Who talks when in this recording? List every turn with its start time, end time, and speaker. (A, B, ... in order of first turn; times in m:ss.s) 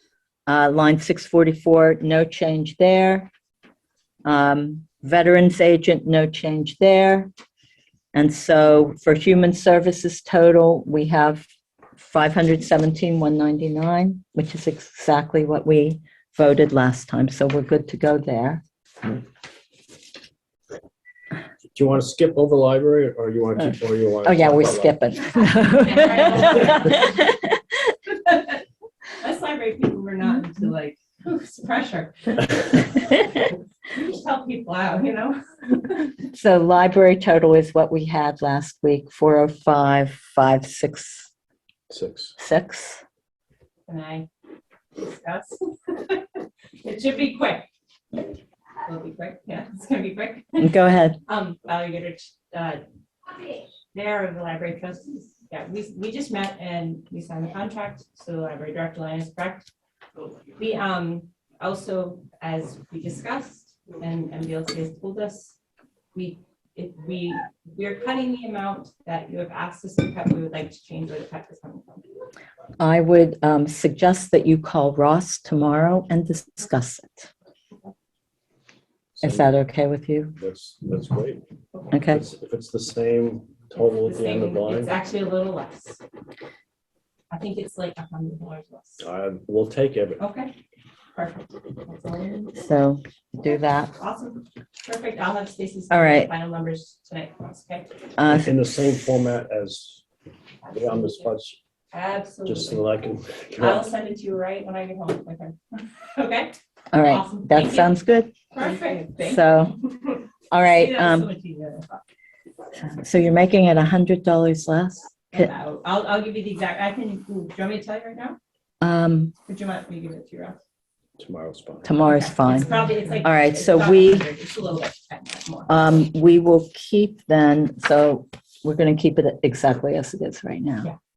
0:00.5-0:03.3 A
0:04.2-0:07.3 A
0:08.1-0:11.4 A
0:12.0-0:18.6 A
0:21.7-0:25.0 B
0:24.2-0:27.6 A
0:25.6-0:27.2 C
0:28.2-0:28.5 C
0:29.2-0:33.1 C
0:33.9-0:35.9 C
0:36.2-0:41.3 A
0:41.9-0:42.3 B
0:42.4-0:43.0 A
0:43.9-0:44.3 C
0:45.0-0:47.7 C
0:48.8-0:50.7 C
0:50.6-0:51.2 A
0:51.2-0:52.8 C
0:53.9-0:59.7 C
1:00.6-1:05.6 C
1:06.1-1:12.1 C
1:12.8-1:17.3 A
1:19.1-1:19.5 B
1:19.2-1:20.3 A
1:20.4-1:21.4 B
1:21.9-1:22.2 A
1:22.1-1:24.9 B
1:23.8-1:26.0 C
1:27.3-1:29.0 C
1:29.0-1:30.2 B
1:30.2-1:30.5 C
1:31.1-1:32.5 C
1:32.5-1:33.9 A
1:33.9-1:37.9 C
1:35.9-1:36.3 A
1:38.2-1:38.5 A
1:38.2-1:40.0 B
1:40.6-1:41.3 C
1:40.7-1:41.6 B
1:41.9-1:42.9 C
1:42.4-1:43.9 B
1:43.6-1:47.9 C
1:46.9-1:48.4 A
1:48.5-1:52.0 C
1:49.2-1:49.8 A
1:50.5-1:51.3 A
1:52.8-1:55.5 A
1:55.3-1:58.4 C
1:58.8-1:59.3 A
1:59.4-2:00.6 C
2:01.2-2:02.1 B
2:01.8-2:04.3 A
2:02.0-2:05.9 C
2:05.7-2:10.9 A